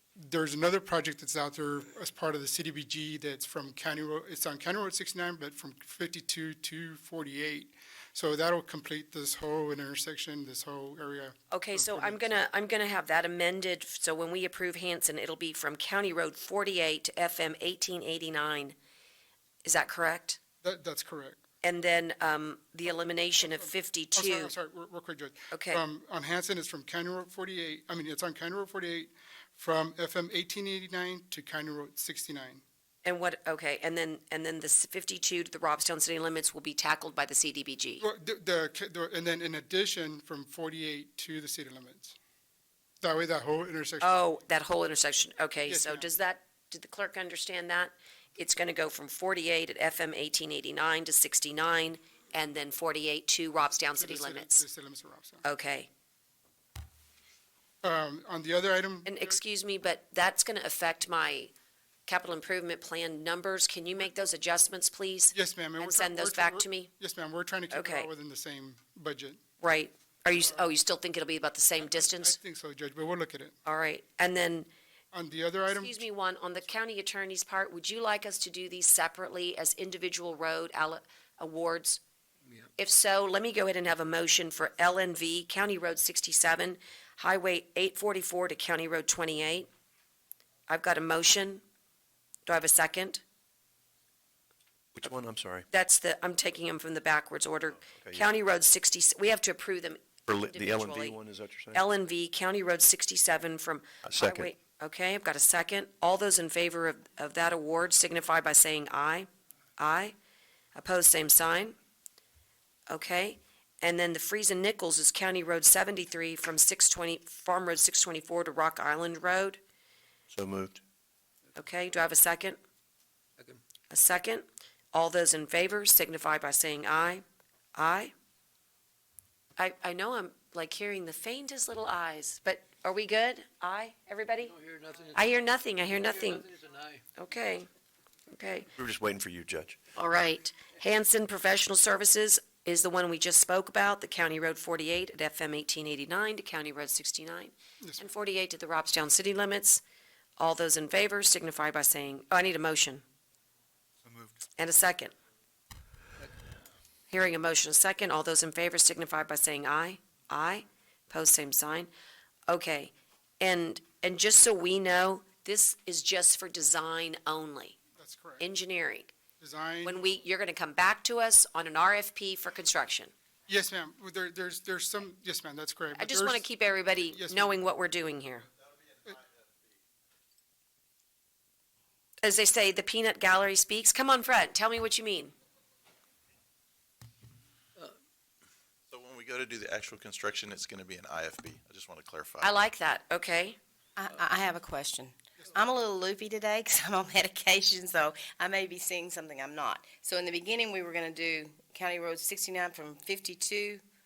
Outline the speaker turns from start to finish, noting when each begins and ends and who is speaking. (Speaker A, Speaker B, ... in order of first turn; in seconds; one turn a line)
Speaker A: 0.2-12.4
Speaker B: 11.5-18.8
Speaker B: 19.6-20.4
Speaker A: 20.6-21.4
Speaker B: 21.6-24.5
Speaker A: 23.4-32.6
Speaker B: 25.5-25.8
Speaker B: 33.0-38.0
Speaker A: 38.0-42.2
Speaker A: 43.0-44.2
Speaker B: 44.0-54.6
Speaker A: 45.7-46.1
Speaker A: 54.0-55.4
Speaker B: 55.4-55.9
Speaker A: 57.8-59.4
Speaker B: 59.0-61.5
Speaker B: 62.1-66.9
Speaker A: 65.3-69.4
Speaker B: 67.7-68.1
Speaker B: 69.6-72.4
Speaker A: 71.8-73.5
Speaker B: 73.7-74.7
Speaker A: 75.1-76.0
Speaker B: 75.7-82.0
Speaker B: 82.8-89.7
Speaker B: 90.7-91.6
Speaker B: 92.5-93.2
Speaker C: 95.0-95.7
Speaker B: 95.7-101.2
Speaker C: 97.7-98.3
Speaker C: 100.3-101.8
Speaker B: 101.7-110.2
Speaker C: 104.0-104.5
Speaker B: 110.8-111.8
Speaker B: 112.9-119.6
Speaker C: 120.3-120.8
Speaker B: 121.6-122.6
Speaker B: 123.9-127.2
Speaker B: 127.8-128.1
Speaker B: 129.6-134.5
Speaker D: 134.4-135.4
Speaker B: 135.1-136.5
Speaker D: 135.9-137.0
Speaker B: 137.2-137.7
Speaker B: 138.3-138.7
Speaker C: 138.8-139.8
Speaker B: 139.9-149.8
Speaker A: 147.8-148.1
Speaker B: 150.4-153.0
Speaker B: 154.6-155.1
Speaker B: 157.1-161.9
Speaker B: 162.5-167.8
Speaker A: 168.0-168.4
Speaker B: 168.4-169.1
Speaker A: 169.4-170.0
Speaker B: 169.8-173.1
Speaker A: 173.5-176.5
Speaker B: 175.9-178.5
Speaker A: 177.1-177.6
Speaker B: 182.2-185.3
Speaker E: 188.9-192.6
Speaker B: 192.4-193.6
Speaker F: 194.0-203.8